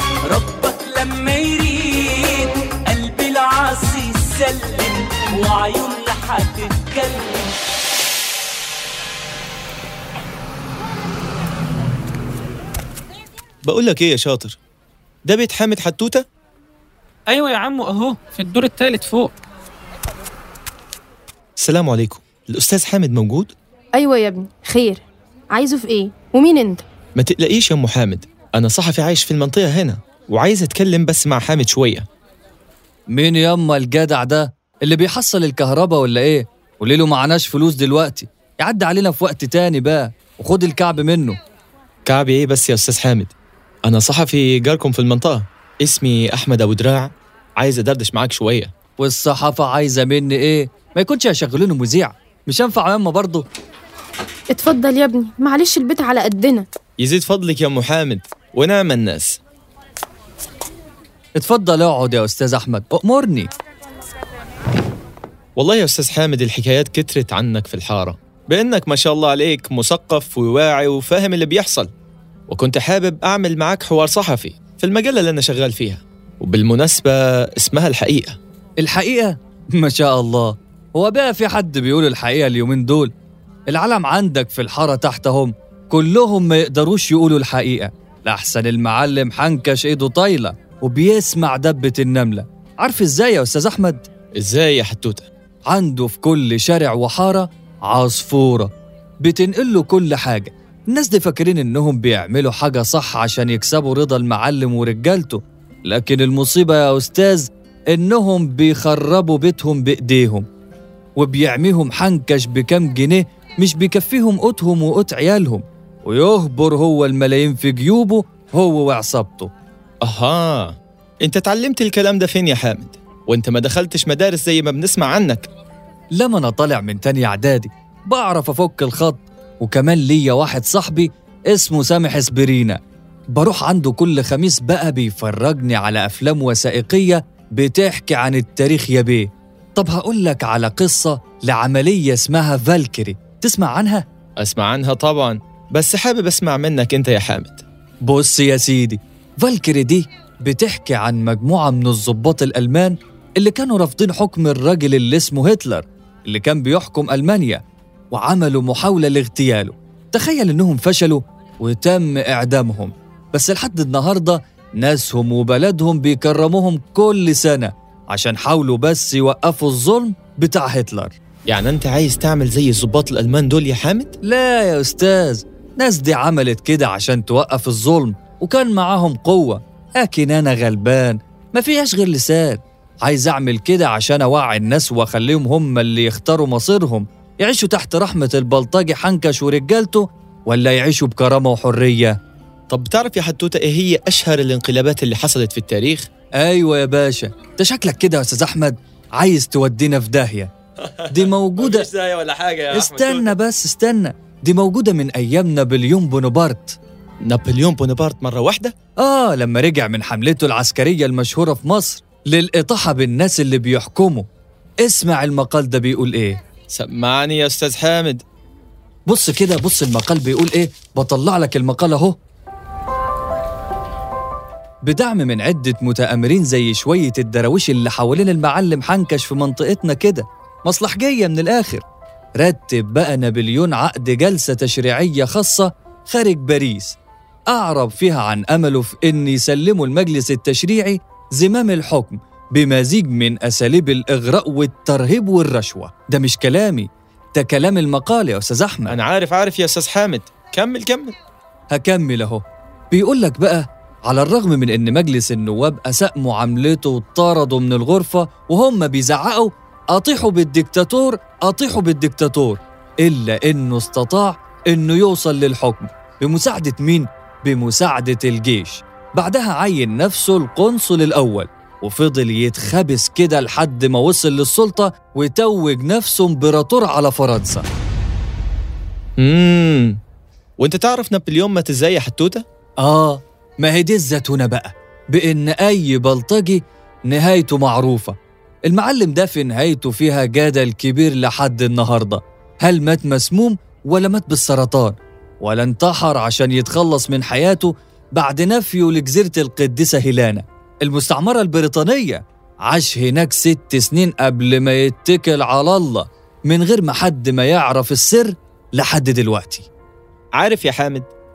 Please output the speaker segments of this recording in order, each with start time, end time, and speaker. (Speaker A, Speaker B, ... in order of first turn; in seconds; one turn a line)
Speaker A: 0.3-7.5
Speaker B: 13.6-14.6
Speaker B: 15.2-16.2
Speaker C: 17.3-19.3
Speaker B: 21.6-23.5
Speaker D: 23.9-26.8
Speaker B: 27.2-32.0
Speaker E: 33.1-41.4
Speaker B: 42.1-43.3
Speaker B: 43.9-48.7
Speaker E: 49.0-53.4
Speaker D: 54.5-56.6
Speaker B: 57.0-59.4
Speaker E: 61.4-63.5
Speaker B: 65.6-71.9
Speaker B: 72.5-78.4
Speaker E: 78.8-83.1
Speaker E: 83.7-94.0
Speaker B: 94.4-95.3
Speaker E: 95.7-98.7
Speaker E: 99.2-110.4
Speaker E: 111.2-119.5
Speaker B: 120.0-125.5
Speaker E: 126.2-132.8
Speaker E: 133.3-144.0
Speaker B: 144.4-147.6
Speaker E: 148.0-171.2
Speaker B: 171.5-174.1
Speaker E: 174.2-192.2
Speaker B: 192.7-196.1
Speaker E: 196.4-200.5
Speaker B: 200.9-203.3
Speaker E: 201.1-201.9
Speaker E: 202.7-206.8
Speaker B: 207.2-208.7
Speaker E: 209.0-214.2
Speaker E: 214.8-216.4
Speaker B: 216.7-218.2
Speaker E: 219.1-222.2
Speaker E: 224.8-231.8
Speaker E: 232.4-236.9
Speaker E: 237.5-248.9
Speaker B: 248.9-251.1
Speaker E: 251.7-277.6
Speaker B: 279.2-280.0
Speaker B: 280.6-282.4
Speaker E: 282.8-288.1
Speaker E: 288.7-309.7
Speaker B: 310.4-311.1